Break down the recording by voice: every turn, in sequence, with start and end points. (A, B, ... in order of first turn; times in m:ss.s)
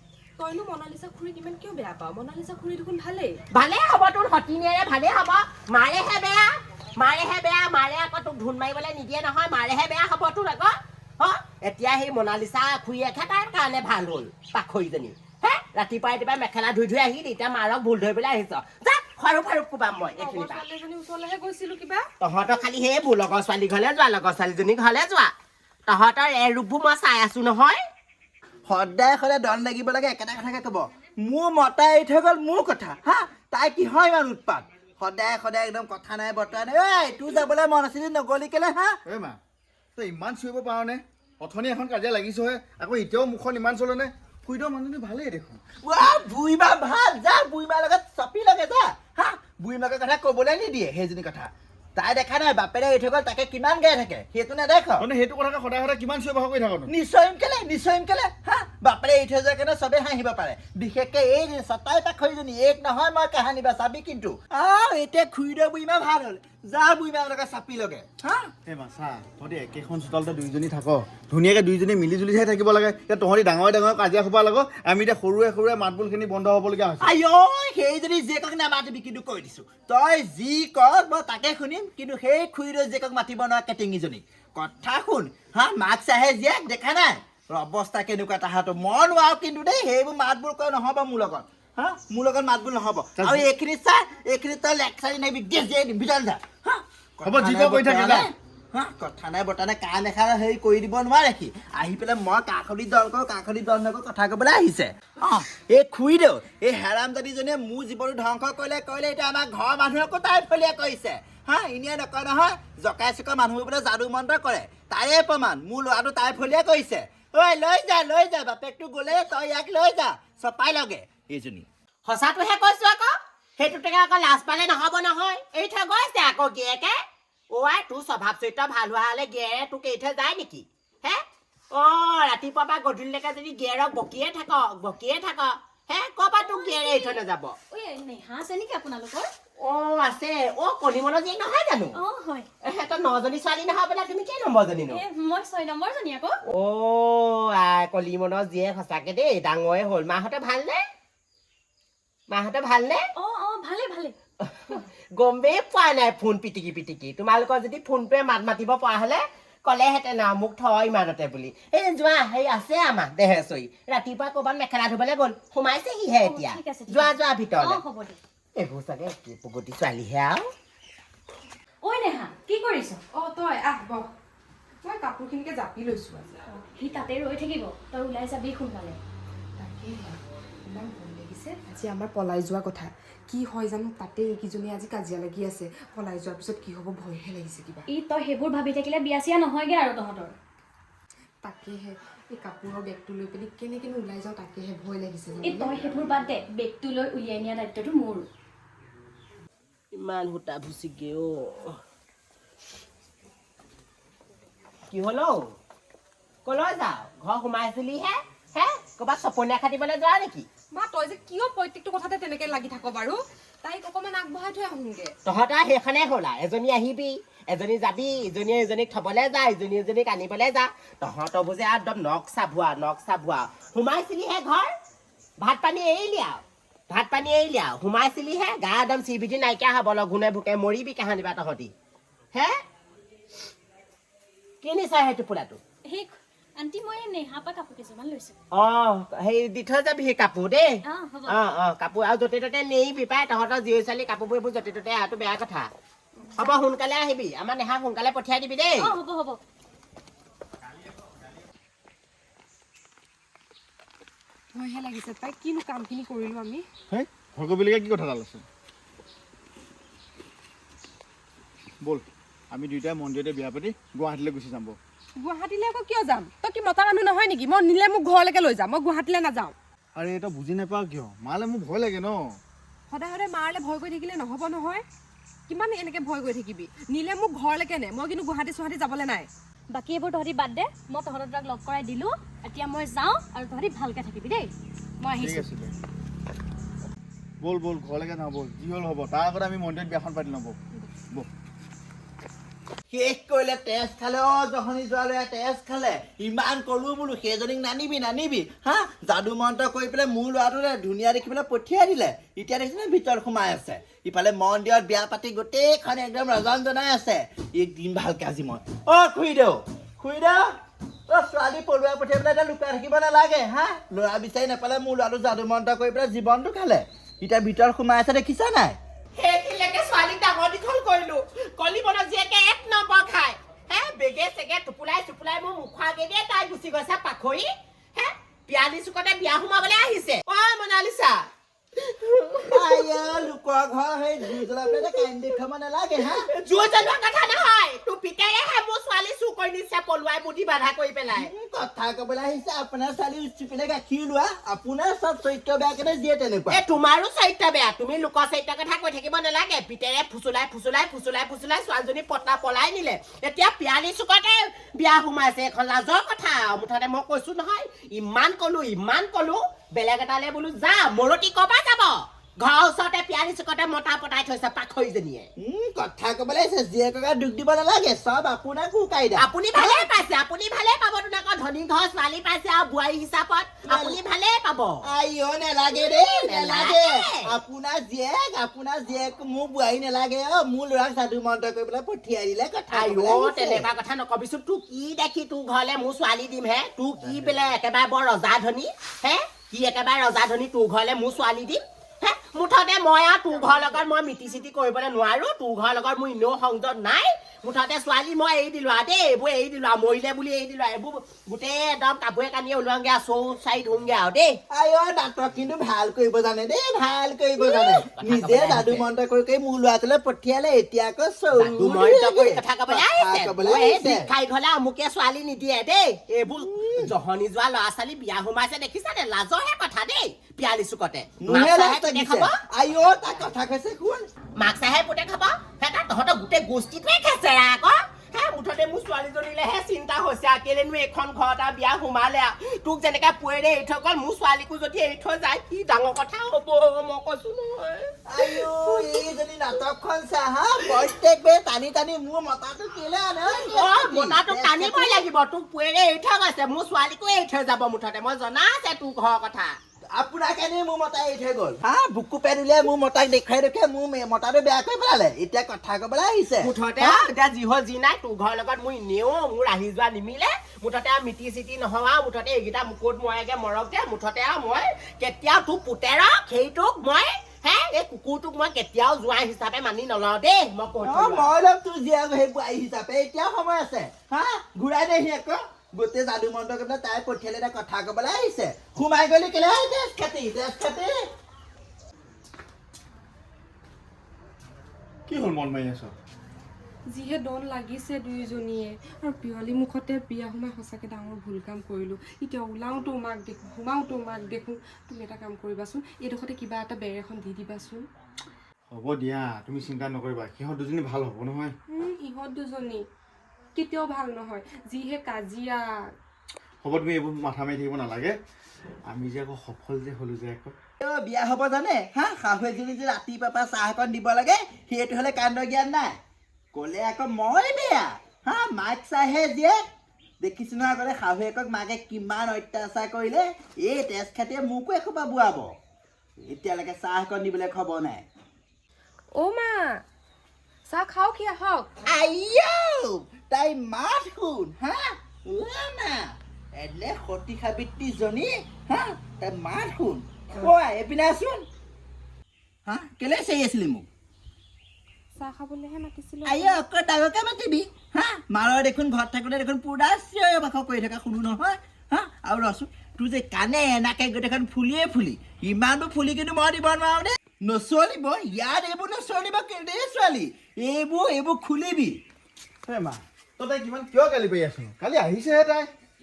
0:00.4-0:03.4 A
0:03.5-0:20.6 B
0:20.2-0:22.1 A
0:22.2-0:25.3 B
0:25.9-0:27.8 B
0:28.7-0:39.0 C
0:39.1-0:39.4 D
0:40.0-0:45.6 D
0:45.8-0:55.1 C
0:55.0-0:56.9 D
0:56.9-1:08.5 C
1:08.7-1:17.1 D
1:17.0-2:01.7 C
1:33.2-1:33.5 D
1:37.2-1:38.3 D
2:02.0-2:17.6 B
2:16.4-2:17.2 E
2:17.7-2:19.3 E
2:19.6-2:22.0 B
2:22.0-2:22.5 E
2:22.6-2:25.0 B
2:24.9-2:26.4 E
2:26.5-2:30.8 B
2:32.3-2:33.0 B
2:33.2-2:34.1 E
2:34.4-2:47.8 B
2:46.2-2:48.2 E
2:48.6-2:50.5 B
2:51.8-2:53.0 E
2:53.1-2:54.1 A
2:54.8-2:56.4 A
2:56.5-2:59.0 E
2:59.6-3:07.9 A
3:07.9-3:10.4 E
3:11.4-3:15.8 A
3:15.4-3:18.3 E
3:19.9-3:21.8 B
3:24.9-3:25.6 B
3:26.4-3:30.5 B
3:30.7-3:35.1 A
3:35.2-3:44.7 B
3:45.4-3:51.7 B
3:52.3-3:52.6 B
3:54.6-3:55.6 B
3:55.8-3:58.4 E
3:58.5-4:05.7 B
4:00.8-4:01.4 E
4:06.4-4:09.0 B
4:08.8-4:09.4 E
4:14.5-4:16.7 A
4:16.9-4:18.4 D
4:21.8-4:24.8 D
4:25.2-4:29.5 A
4:30.0-4:32.4 D
4:32.9-4:34.8 A
4:35.5-4:39.3 A
4:39.7-4:45.5 E
4:45.2-4:45.7 D
4:47.4-4:50.6 D
4:52.9-5:10.5 C
5:11.1-5:18.8 C
5:19.2-5:32.9 B
5:32.4-5:36.3 C
5:36.0-5:41.3 B
5:41.1-5:46.6 C
5:46.5-6:05.3 B
6:05.4-6:09.9 C
6:09.2-6:14.9 B
6:13.7-6:14.0 C
6:14.8-6:23.7 C
6:15.7-6:17.3 B
6:22.7-6:44.4 B
6:44.5-6:54.1 C
6:47.4-6:48.8 B
6:51.4-7:02.4 B
6:56.4-6:56.9 C
7:01.2-7:04.1 C
7:04.4-7:19.0 B
7:18.1-7:25.0 C
7:23.3-7:29.6 B
7:29.9-7:37.1 C
7:36.4-7:51.3 B
7:50.8-8:00.9 C
8:05.1-8:05.9 D
8:06.9-8:17.8 A
8:18.7-8:21.6 D
8:21.7-8:22.8 A
8:23.6-8:25.7 A
8:26.6-8:28.2 D
8:28.9-8:30.5 D
8:30.8-8:36.0 C
8:36.5-8:39.6 C
8:40.2-8:45.6 C
8:46.3-8:48.1 C
8:49.2-8:49.8 A
8:50.7-8:51.7 A
8:51.9-9:01.4 C
9:02.7-9:03.9 C
9:05.2-9:06.6 A
9:06.3-9:22.0 C
9:22.7-9:25.7 D